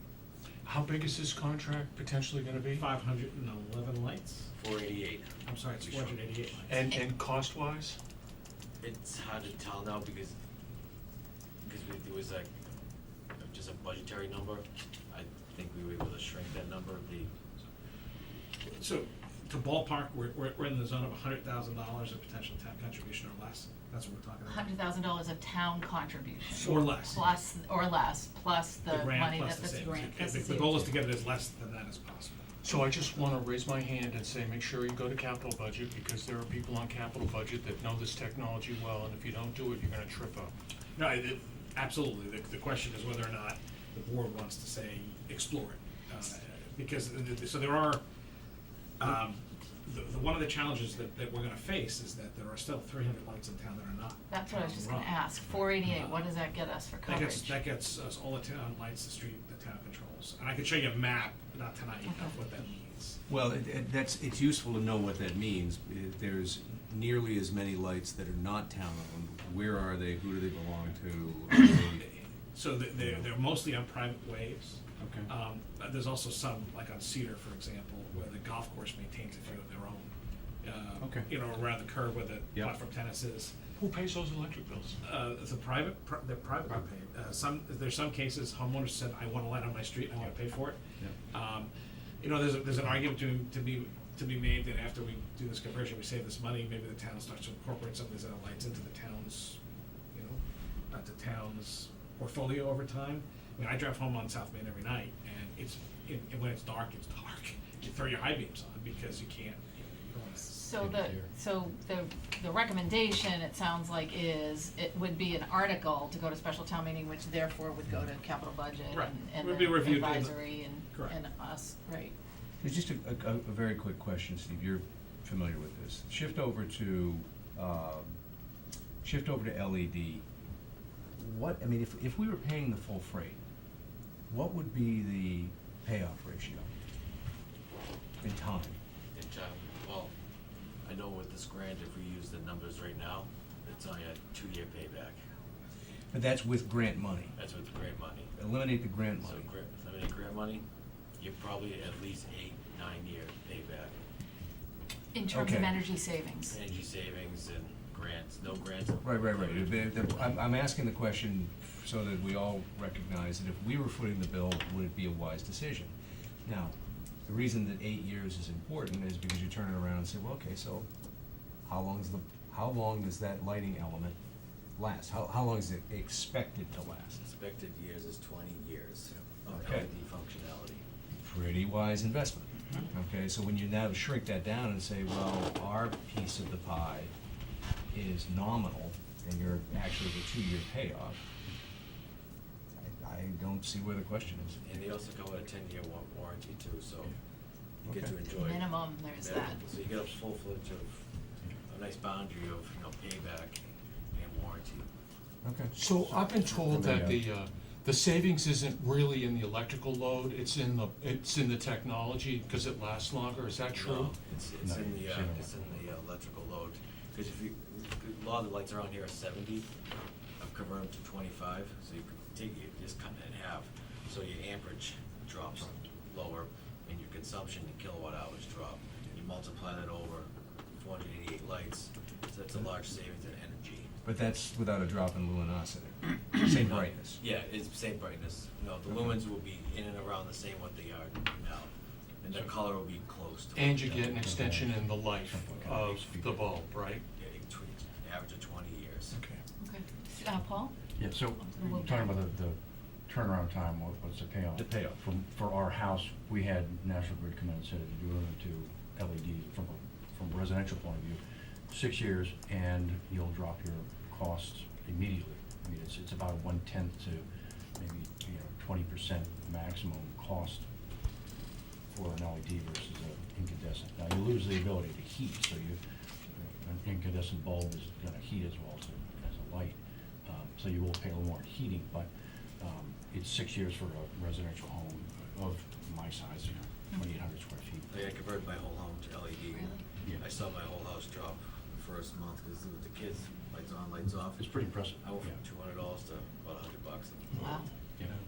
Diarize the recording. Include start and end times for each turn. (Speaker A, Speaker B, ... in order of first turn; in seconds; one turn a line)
Speaker A: 0.6-2.9
Speaker B: 2.9-4.5
Speaker C: 4.5-6.4
Speaker B: 5.5-6.6
Speaker A: 6.7-8.0
Speaker C: 8.8-10.3
Speaker C: 11.6-12.5
Speaker C: 13.4-17.3
Speaker B: 18.8-24.6
Speaker D: 24.4-30.9
Speaker A: 26.6-26.9
Speaker B: 26.7-27.1
Speaker B: 28.9-32.5
Speaker A: 32.6-40.5
Speaker B: 41.0-48.0
Speaker B: 49.0-55.1
Speaker D: 54.3-57.6
Speaker B: 57.1-63.2
Speaker D: 62.0-62.3
Speaker E: 63.3-72.0
Speaker B: 72.0-83.5
Speaker E: 75.0-75.3
Speaker E: 81.0-81.3
Speaker A: 83.8-85.0
Speaker B: 85.1-90.8
Speaker B: 91.3-99.6
Speaker B: 100.1-110.9
Speaker D: 110.5-122.1
Speaker E: 110.8-111.2
Speaker B: 118.9-120.3
Speaker E: 122.6-128.2
Speaker E: 129.0-130.2
Speaker E: 131.2-133.4
Speaker E: 134.3-136.7
Speaker E: 138.2-138.8
Speaker C: 139.1-140.1
Speaker C: 140.8-145.2
Speaker E: 146.1-147.3
Speaker C: 147.3-148.3
Speaker E: 148.3-149.5
Speaker C: 149.2-150.7
Speaker C: 151.2-153.9
Speaker D: 155.1-156.6
Speaker E: 155.3-155.8
Speaker C: 156.5-159.8
Speaker E: 159.0-165.9
Speaker E: 166.4-170.9
Speaker E: 171.7-174.2
Speaker E: 174.8-177.2
Speaker C: 177.2-180.8
Speaker E: 179.4-179.9
Speaker E: 181.2-187.1
Speaker E: 187.9-191.3
Speaker E: 192.8-194.6
Speaker C: 194.6-197.1
Speaker E: 197.8-198.1
Speaker C: 197.8-201.0
Speaker D: 198.3-199.6
Speaker C: 201.7-203.6
Speaker C: 204.1-204.9
Speaker E: 205.4-205.7
Speaker A: 205.7-214.1
Speaker E: 206.7-207.1
Speaker F: 206.7-207.1
Speaker C: 213.7-219.7
Speaker E: 214.6-215.7
Speaker F: 214.7-215.3
Speaker C: 220.4-233.9
Speaker E: 234.0-237.2
Speaker C: 236.4-241.7
Speaker C: 242.2-243.9
Speaker A: 243.5-247.0
Speaker F: 243.8-246.4
Speaker C: 247.2-249.1
Speaker A: 249.1-249.4
Speaker D: 249.6-252.2
Speaker F: 251.0-270.6
Speaker F: 271.9-275.8
Speaker F: 276.3-288.1
Speaker C: 287.9-297.3
Speaker D: 289.5-289.8
Speaker F: 294.4-295.4
Speaker A: 297.3-298.1
Speaker D: 297.4-297.7